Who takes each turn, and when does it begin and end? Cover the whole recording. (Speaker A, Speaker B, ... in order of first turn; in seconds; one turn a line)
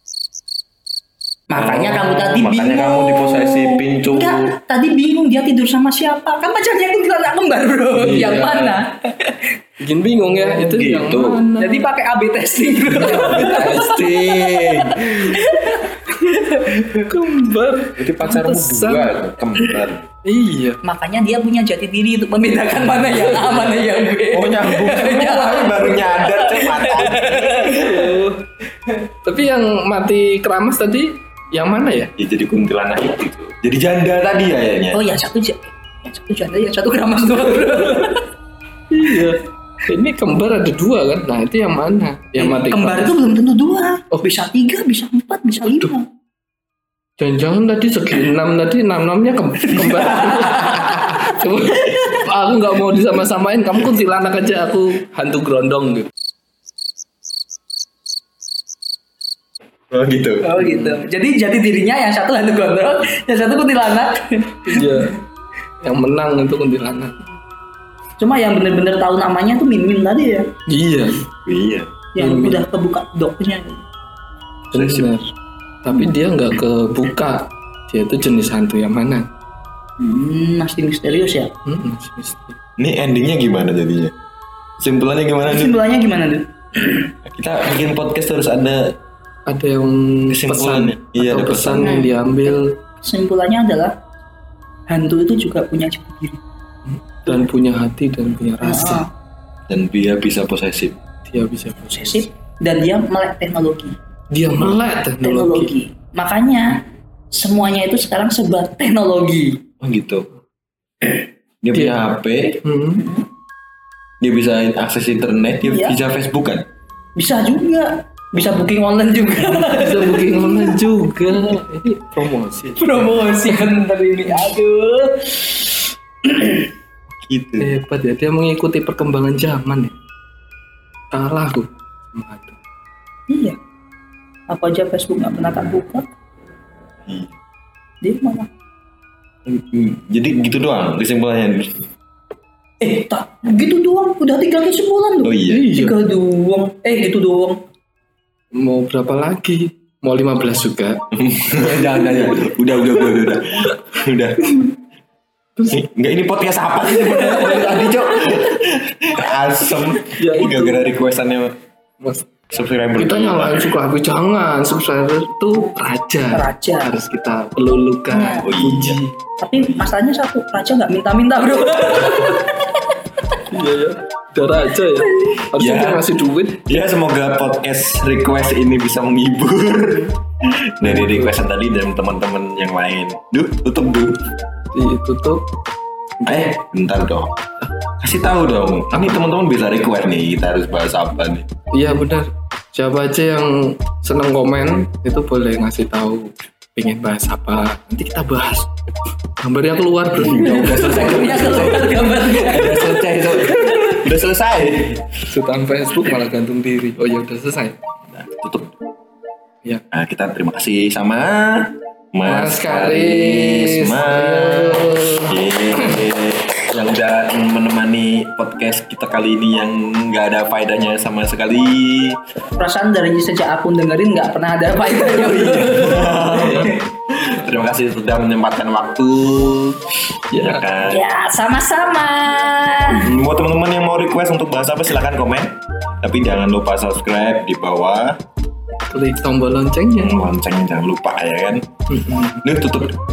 Speaker A: 1.5-9.5
Speaker B: 1.5-4.5
Speaker C: 7.9-8.8
Speaker C: 9.8-11.9
Speaker B: 10.4-11.4
Speaker A: 11.6-17.1
Speaker C: 12.9-14.5
Speaker B: 13.2-15.3
Speaker C: 15.3-19.3
Speaker B: 17.9-20.1
Speaker C: 20.2-20.8
Speaker A: 20.8-28.1
Speaker B: 24.3-27.9
Speaker C: 27.5-28.4
Speaker C: 29.2-32.1
Speaker B: 32.2-35.0
Speaker A: 34.9-38.3
Speaker C: 38.9-43.2
Speaker A: 42.4-46.0
Speaker C: 47.2-56.1
Speaker A: 50.1-51.4
Speaker B: 59.9-60.5
Speaker A: 60.4-65.1
Speaker C: 60.6-61.0
Speaker C: 64.7-65.2
Speaker C: 65.8-67.2
Speaker A: 68.2-70.5
Speaker C: 70.7-71.2
Speaker B: 71.5-71.9
Speaker A: 72.1-73.8
Speaker C: 72.2-72.6
Speaker B: 74.7-75.1
Speaker C: 74.7-75.3
Speaker C: 75.8-79.3
Speaker A: 80.0-81.5
Speaker C: 81.7-82.6
Speaker B: 82.8-84.1
Speaker B: 84.8-85.7
Speaker A: 85.4-87.1
Speaker B: 87.2-89.0
Speaker C: 89.5-92.7
Speaker B: 90.3-92.0
Speaker A: 91.8-94.0
Speaker A: 94.9-96.4
Speaker C: 96.9-99.0
Speaker A: 98.6-99.1
Speaker B: 99.7-101.0
Speaker C: 101.2-102.2
Speaker A: 101.8-104.0
Speaker C: 104.3-105.7
Speaker A: 105.2-109.6
Speaker B: 109.8-110.3
Speaker B: 111.6-112.6
Speaker C: 111.7-112.0
Speaker C: 112.6-113.1
Speaker A: 113.0-113.2
Speaker B: 114.2-116.7
Speaker A: 115.7-116.0
Speaker A: 117.2-120.8
Speaker C: 119.5-123.6
Speaker A: 122.8-126.7
Speaker B: 127.2-127.7
Speaker C: 127.6-129.9
Speaker C: 131.1-132.6
Speaker A: 133.3-133.6
Speaker A: 134.5-136.1
Speaker B: 137.1-137.3
Speaker A: 138.0-138.5
Speaker B: 139.4-141.9
Speaker A: 142.8-147.6
Speaker B: 145.2-145.7
Speaker C: 145.5-145.9
Speaker C: 148.5-151.1
Speaker B: 151.1-154.5
Speaker C: 152.0-152.4
Speaker B: 155.7-161.6
Speaker C: 157.0-158.0
Speaker C: 160.0-160.9
Speaker C: 162.0-162.3
Speaker B: 162.5-163.8
Speaker C: 163.0-169.1
Speaker A: 166.3-166.9
Speaker A: 168.1-168.5
Speaker B: 168.4-169.0
Speaker A: 169.4-173.4
Speaker B: 169.6-169.8
Speaker C: 173.4-176.7
Speaker B: 175.5-176.1
Speaker B: 176.6-184.2
Speaker C: 180.8-181.3
Speaker C: 184.7-185.5
Speaker C: 186.2-186.5
Speaker B: 186.2-187.4
Speaker B: 188.0-191.5
Speaker C: 188.9-189.2
Speaker C: 191.7-198.7
Speaker C: 199.4-201.8
Speaker B: 200.1-205.2
Speaker A: 200.4-204.0
Speaker C: 205.2-207.8
Speaker B: 208.1-208.7
Speaker B: 209.9-222.2
Speaker C: 212.2-216.0
Speaker A: 222.6-226.8
Speaker B: 225.3-231.0
Speaker C: 226.2-226.7
Speaker C: 230.3-230.7
Speaker A: 230.8-233.1
Speaker B: 232.9-238.2
Speaker C: 238.9-240.1
Speaker B: 240.0-241.7
Speaker C: 241.9-242.4
Speaker B: 242.4-243.0